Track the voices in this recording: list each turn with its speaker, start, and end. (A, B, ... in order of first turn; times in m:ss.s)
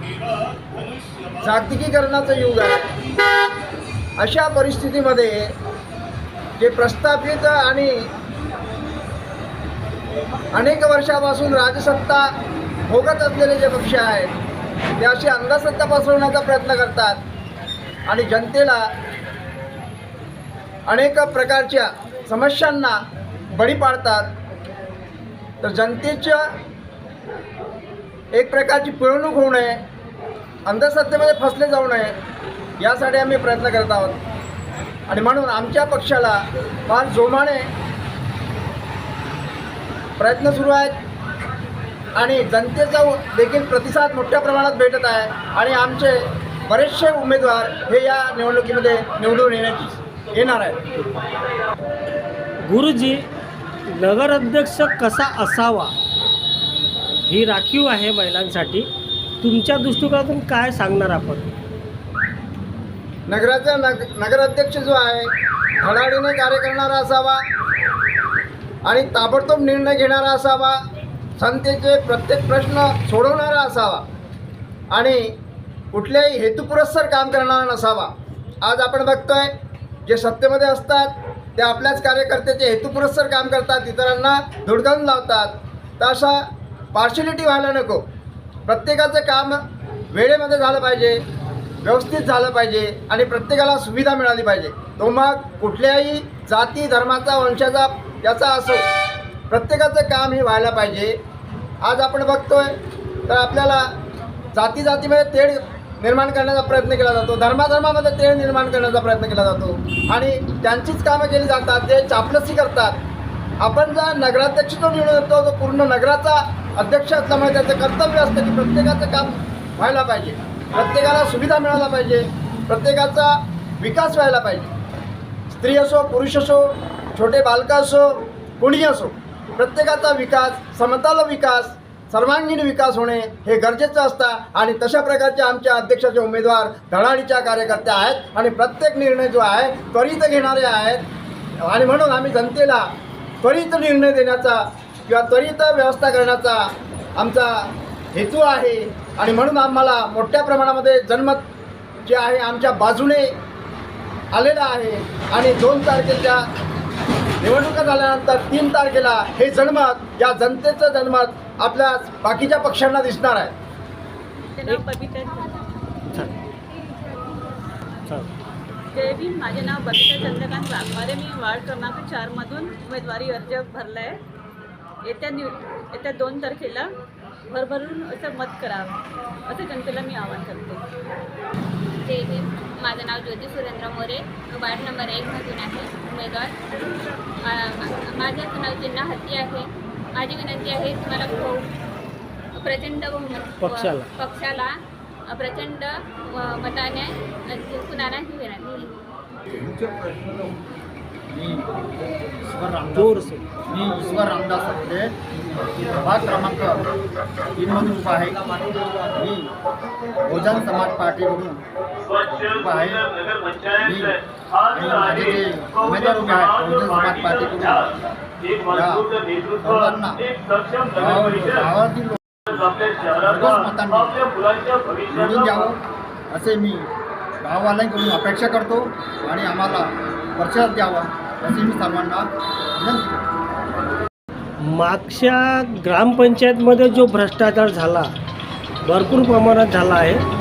0:01.4-0:02.9 A
0:04.2-0:05.5 A
0:06.6-0:08.1 A
0:10.5-0:12.3 A
0:12.9-0:14.3 A
0:15.0-0:17.2 A
0:18.1-0:18.9 A
0:20.9-0:23.0 A
0:23.5-0:24.3 A
0:25.6-0:26.5 A
0:28.3-0:29.8 A
0:30.6-0:32.2 A
0:32.8-0:34.2 A
0:35.1-0:37.7 A
0:40.2-0:41.0 A
0:42.2-0:50.8 A
0:52.6-0:53.3 B
0:53.9-0:55.9 B
0:57.3-0:58.9 B
0:59.4-1:01.5 B
1:03.3-1:07.4 A
1:08.8-1:10.8 A
1:11.4-1:14.0 A
1:14.9-1:15.4 A
1:15.9-1:19.5 A
1:20.0-1:28.0 A
1:28.6-1:31.2 A
1:31.8-1:38.9 A
1:39.5-1:41.2 A
1:41.8-1:42.7 A
1:43.3-1:43.9 A
1:44.5-1:53.0 A
1:53.6-2:04.7 A
2:05.5-2:21.0 A
2:21.6-2:22.9 A
2:23.4-2:31.5 A
2:32.0-2:33.3 A
2:34.3-2:36.4 A
2:37.4-2:43.5 A
2:44.6-2:45.6 C
2:46.1-2:46.4 B
2:48.9-2:54.2 C
2:55.0-2:56.9 C
2:57.5-3:00.8 C
3:02.0-3:06.6 D
3:07.4-3:11.7 D
3:12.5-3:19.0 D
3:19.8-3:20.3 E
3:21.3-3:21.7 E
3:22.4-3:25.1 E
3:23.0-3:23.4 B
3:26.0-3:26.9 E
3:27.6-3:28.4 E
3:29.1-3:29.5 E
3:30.2-3:33.1 E
3:33.6-3:37.9 E
3:38.6-3:40.3 E
3:40.9-3:44.3 E
3:45.0-3:46.9 E
3:47.4-3:53.2 E
3:54.6-3:58.1 B
3:58.8-4:00.2 B